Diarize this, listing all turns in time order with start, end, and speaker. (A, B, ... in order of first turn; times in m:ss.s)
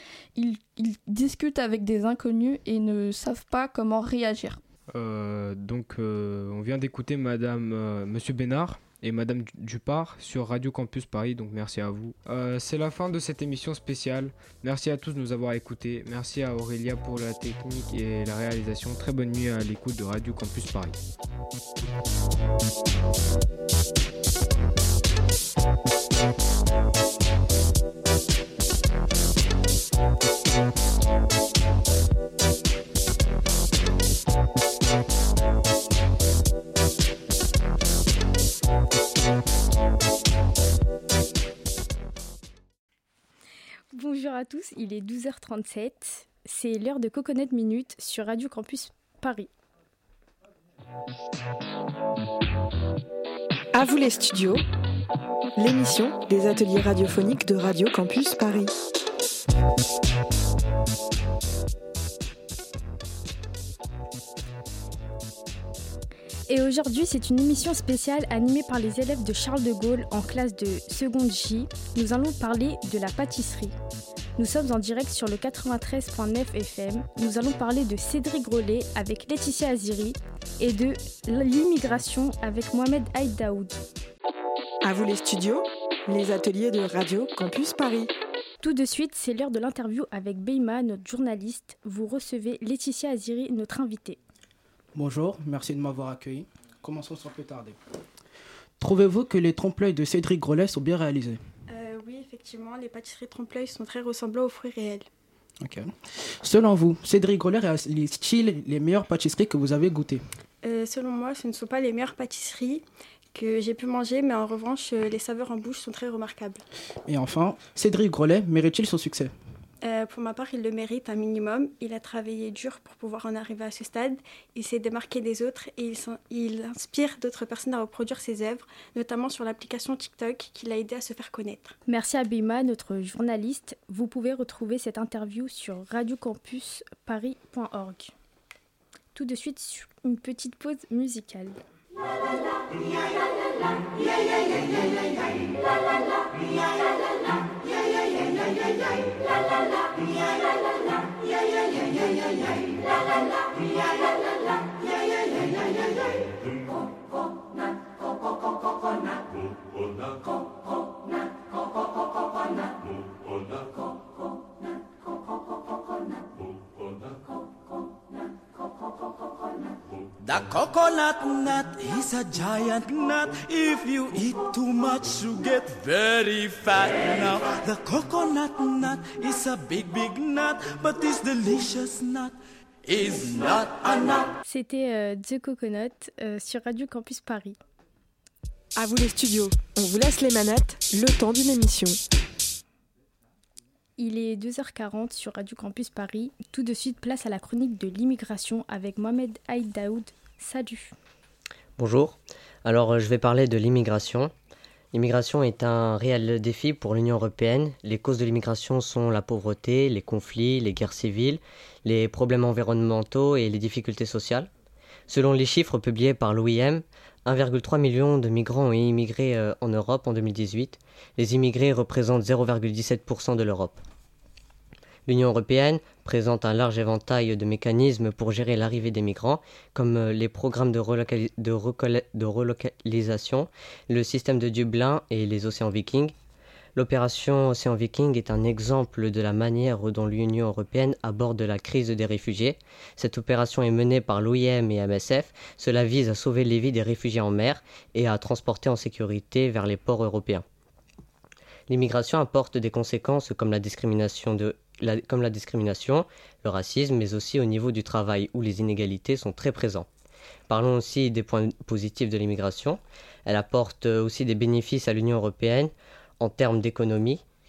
0:00.4-0:04.6 A
0:04.9-0:21.0 B
0:43.9-0:49.5 C
0:53.7-0:54.6 D
0:55.6-0:58.7 D
1:06.5-1:13.7 C
1:14.4-1:23.7 C
1:24.8-1:28.1 D
1:28.6-1:34.2 C
1:34.9-1:37.8 E
1:38.8-1:41.4 E
1:41.7-1:45.0 F
1:45.6-1:50.2 E
1:50.6-1:52.8 F
1:53.3-1:56.6 F
1:57.0-1:59.3 E
1:59.8-2:11.6 F
2:11.9-2:18.1 C
2:19.1-2:21.6 C
2:50.4-3:02.3 G
3:03.0-3:03.4 G
3:04.4-3:07.6 C
3:08.8-3:12.0 D
3:14.0-3:20.9 C
3:21.8-3:24.3 H
3:24.9-3:34.5 H
3:35.1-3:43.8 H
3:45.1-3:56.1 H
3:56.8-4:10.4 H
4:11.7-4:19.9 H
4:20.5-4:27.2 H